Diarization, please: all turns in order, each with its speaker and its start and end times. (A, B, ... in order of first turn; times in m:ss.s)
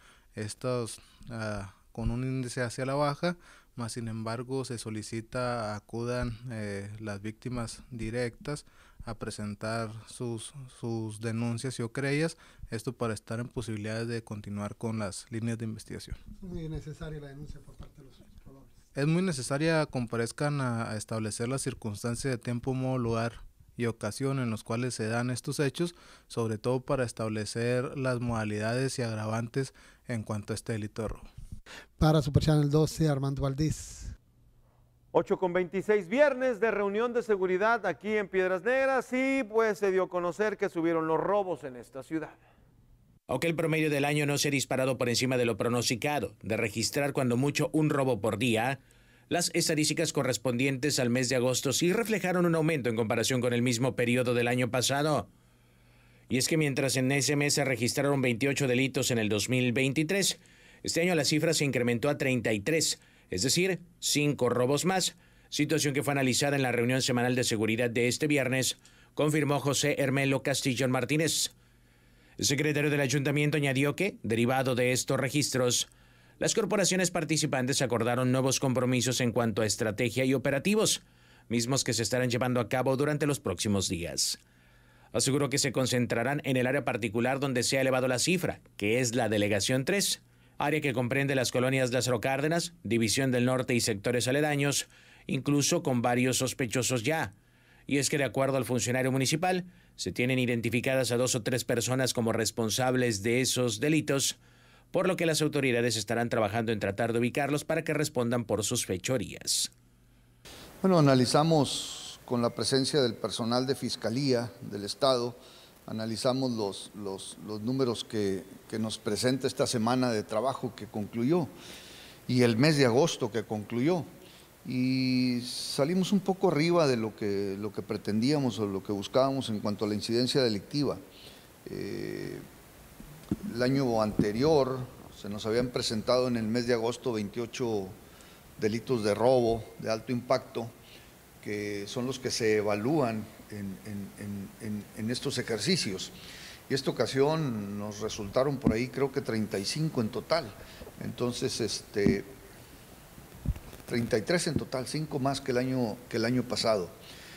0:00.4-0:16.2 A
0:16.4-0:18.8 B
0:18.9-0:31.3 A
0:32.0-0:34.1 B
0:35.1-0:42.4 C
0:43.3-0:55.3 D
0:56.3-1:11.5 D
1:12.4-1:15.9 D
1:16.4-1:24.4 D
1:25.1-1:37.3 D
1:37.9-1:44.4 D
1:44.9-1:49.7 D
1:50.8-2:01.5 E
2:02.3-2:04.1 E
2:04.6-2:11.0 E
2:11.6-2:12.4 E
2:13.4-2:18.0 E
2:18.6-2:20.7 E
2:21.4-2:26.1 E
2:26.7-2:32.3 E
2:33.9-2:37.0 E